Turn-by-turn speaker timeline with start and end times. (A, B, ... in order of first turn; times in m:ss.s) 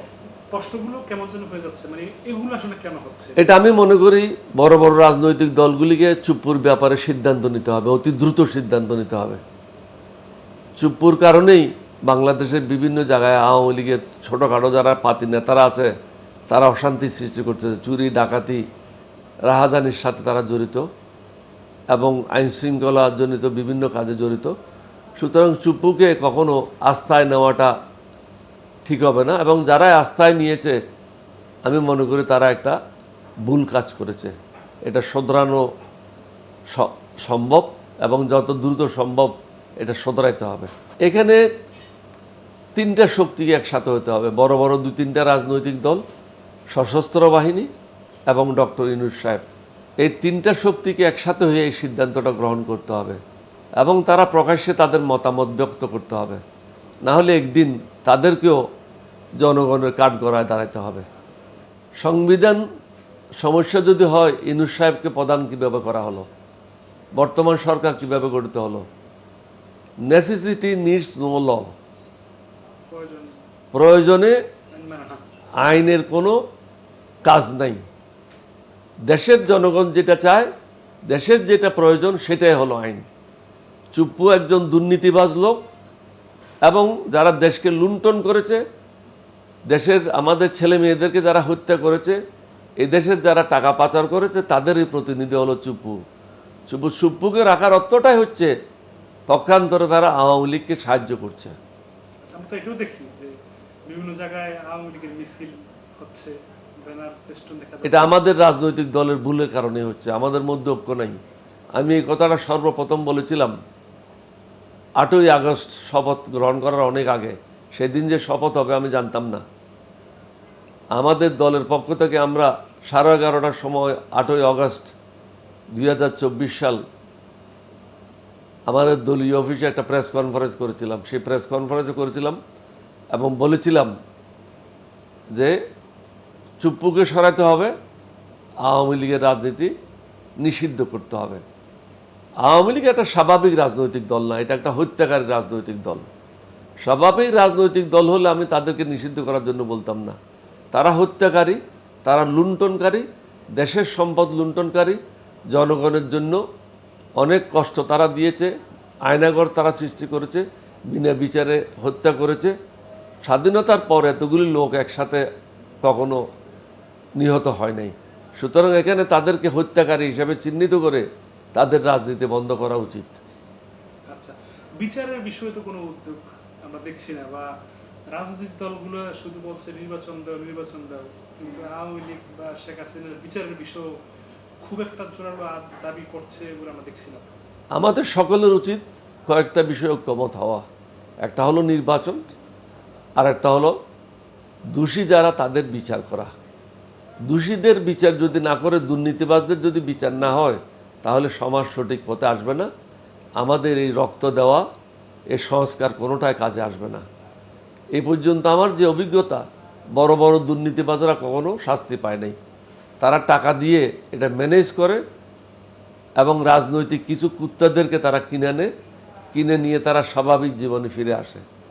0:00.5-0:03.6 A
0:03.4-0:09.4 B
0:10.8-0:15.9 B
0:16.5-0:18.6 B
0:19.5-0:20.9 B
0:21.9-0:24.5 B
0:25.2-0:27.7 B
0:28.9-0:30.8 B
0:31.7-0:32.8 B
0:33.5-0:35.6 B
0:36.7-0:41.5 B
0:42.8-0:46.0 B
0:46.7-0:47.7 B
0:48.3-0:49.4 B
0:50.0-0:53.2 B
0:53.8-0:56.4 B
0:57.1-0:58.6 B
0:59.4-1:01.0 B
1:02.0-1:02.6 B
1:03.4-1:06.3 B
1:07.2-1:08.8 B
1:10.1-1:11.7 B
1:12.9-1:13.4 A
1:13.7-1:14.4 B
1:14.7-1:15.2 A
1:15.6-1:16.4 B
1:17.3-1:17.8 B
1:19.1-1:20.5 B
1:21.1-1:23.1 B
1:23.9-1:25.6 B
1:26.7-1:28.6 B
1:29.7-1:32.2 B
1:32.8-1:36.0 B
1:36.7-1:38.5 B
1:39.3-1:41.6 B
1:42.3-1:43.3 A
1:43.9-1:48.2 A
1:47.8-1:51.2 B
1:51.8-1:53.5 B
1:55.0-1:59.4 B
2:01.0-2:04.9 B
2:05.8-2:06.8 B
2:08.7-2:12.4 B
2:13.1-2:13.9 B
2:16.6-2:17.7 B
2:18.7-2:19.7 B
2:20.4-2:21.4 B
2:22.4-2:26.1 B
2:26.8-2:30.2 B
2:30.7-2:33.1 B
2:33.6-2:35.0 B
2:35.5-2:36.4 B
2:37.2-2:38.5 B
2:39.1-2:42.5 B
2:43.3-2:45.2 B
2:45.8-2:46.2 B
2:47.2-2:53.2 B
2:54.1-2:57.5 A
2:58.1-3:03.9 A
3:04.6-3:07.4 A
3:07.8-3:10.7 B
3:11.2-3:12.2 B
3:13.2-3:13.8 B
3:14.7-3:16.3 B
3:17.3-3:22.7 B
3:23.4-3:24.7 B
3:25.3-3:27.1 B
3:28.0-3:29.4 B
3:30.0-3:32.4 B
3:33.0-3:35.0 B
3:36.2-3:38.7 B
3:39.3-3:41.4 B